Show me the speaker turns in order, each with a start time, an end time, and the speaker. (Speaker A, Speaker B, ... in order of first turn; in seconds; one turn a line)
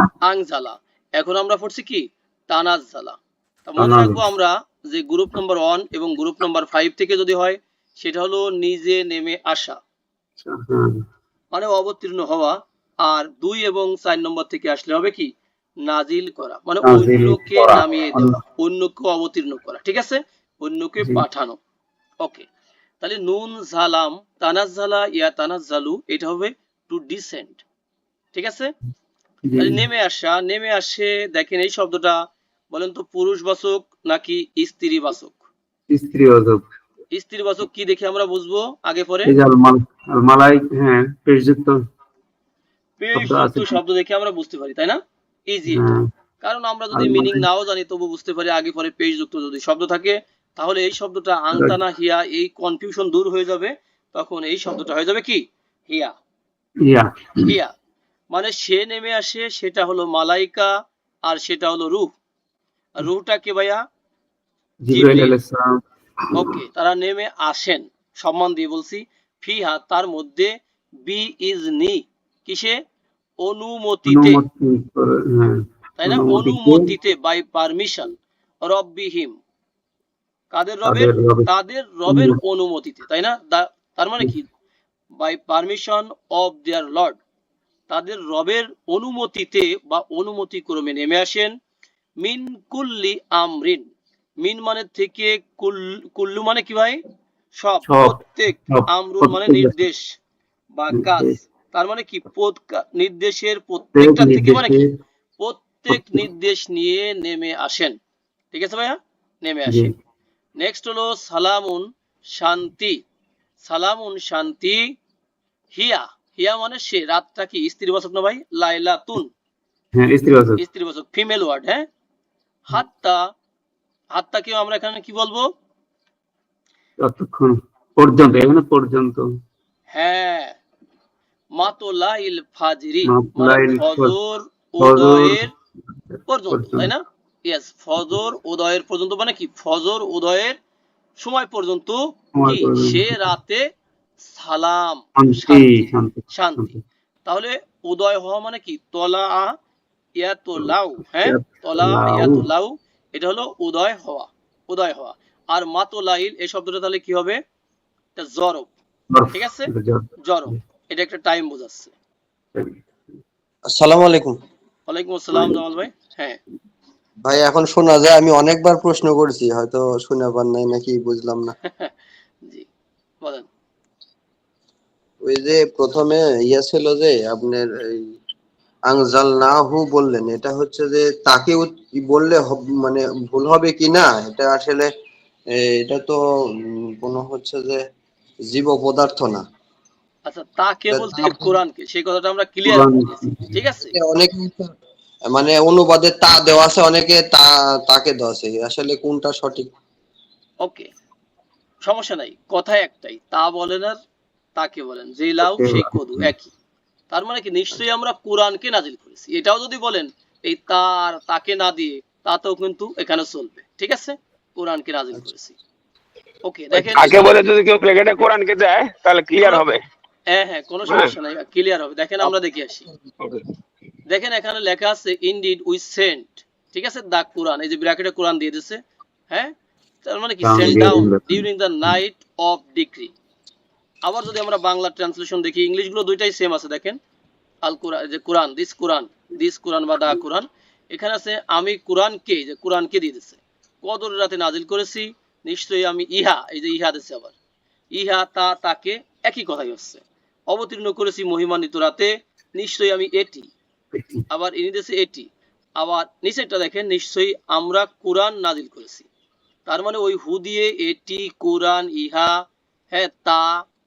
Speaker A: 0.2-9.8
Speaker B: 3.8-4.2
Speaker B: 10.4-11.0
Speaker A: 11.5-15.3
Speaker A: 15.8-21.6
Speaker B: 16.8-18.4
Speaker A: 23.0-27.6
Speaker A: 28.3-28.7
Speaker B: 29.5-29.8
Speaker A: 29.6-32.2
Speaker A: 32.7-35.4
Speaker B: 35.9-36.6
Speaker A: 37.1-39.3
Speaker B: 39.2-41.8
Speaker A: 43.0-56.1
Speaker B: 43.1-43.7
Speaker B: 45.7-46.0
Speaker B: 46.9-47.4
Speaker B: 56.8-57.5
Speaker A: 57.5-57.7
Speaker A: 58.3-60.7
Speaker A: 61.2-62.1
Speaker A: 63.0-63.8
Speaker B: 64.8-66.3
Speaker A: 64.9-65.3
Speaker A: 66.3-72.8
Speaker A: 73.4-74.4
Speaker B: 74.1-76.8
Speaker A: 76.0-79.3
Speaker A: 80.5-84.5
Speaker B: 80.8-81.5
Speaker B: 82.1-82.4
Speaker A: 85.2-87.2
Speaker A: 87.9-91.5
Speaker A: 92.2-93.8
Speaker A: 94.4-97.0
Speaker A: 97.6-100.0
Speaker B: 97.8-99.7
Speaker A: 100.7-104.8
Speaker B: 100.9-101.4
Speaker B: 103.9-104.8
Speaker A: 105.4-108.0
Speaker B: 105.9-106.2
Speaker A: 108.5-109.9
Speaker B: 109.7-109.9
Speaker A: 110.6-113.0
Speaker A: 113.6-114.9
Speaker A: 115.7-119.3
Speaker B: 119.9-120.6
Speaker A: 120.6-121.8
Speaker A: 122.7-123.2
Speaker A: 124.1-125.5
Speaker B: 127.0-129.3
Speaker A: 129.9-130.6
Speaker A: 131.5-135.5
Speaker B: 133.1-134.1
Speaker B: 134.8-135.4
Speaker B: 136.1-136.9
Speaker A: 136.3-140.6
Speaker A: 141.2-143.6
Speaker B: 142.3-143.3
Speaker A: 144.2-146.7
Speaker B: 145.2-146.8
Speaker A: 147.2-149.5
Speaker A: 150.2-157.4
Speaker B: 151.2-152.4
Speaker A: 158.2-158.7
Speaker B: 159.1-160.1
Speaker A: 159.3-159.7
Speaker A: 160.2-161.9
Speaker C: 163.7-164.3
Speaker A: 164.9-166.4
Speaker C: 167.2-171.5
Speaker A: 171.6-171.9
Speaker C: 175.2-178.0
Speaker C: 178.9-184.9
Speaker C: 185.5-187.8
Speaker C: 188.5-189.4
Speaker A: 190.2-193.9
Speaker C: 190.9-191.5
Speaker B: 192.7-193.5
Speaker C: 193.9-194.7
Speaker C: 195.3-199.7
Speaker A: 200.6-200.9
Speaker A: 201.8-204.0
Speaker A: 204.6-206.5
Speaker B: 205.4-206.3
Speaker A: 207.1-215.6
Speaker A: 216.4-217.3
Speaker D: 216.8-219.8
Speaker A: 220.3-222.9
Speaker D: 220.9-221.1
Speaker A: 224.1-229.5
Speaker A: 230.0-233.1
Speaker B: 230.4-231.4
Speaker A: 234.0-237.0
Speaker A: 237.6-247.3
Speaker A: 247.9-253.5
Speaker B: 253.9-254.2
Speaker A: 254.3-255.3
Speaker A: 255.8-259.1
Speaker A: 259.6-262.4
Speaker A: 262.9-263.6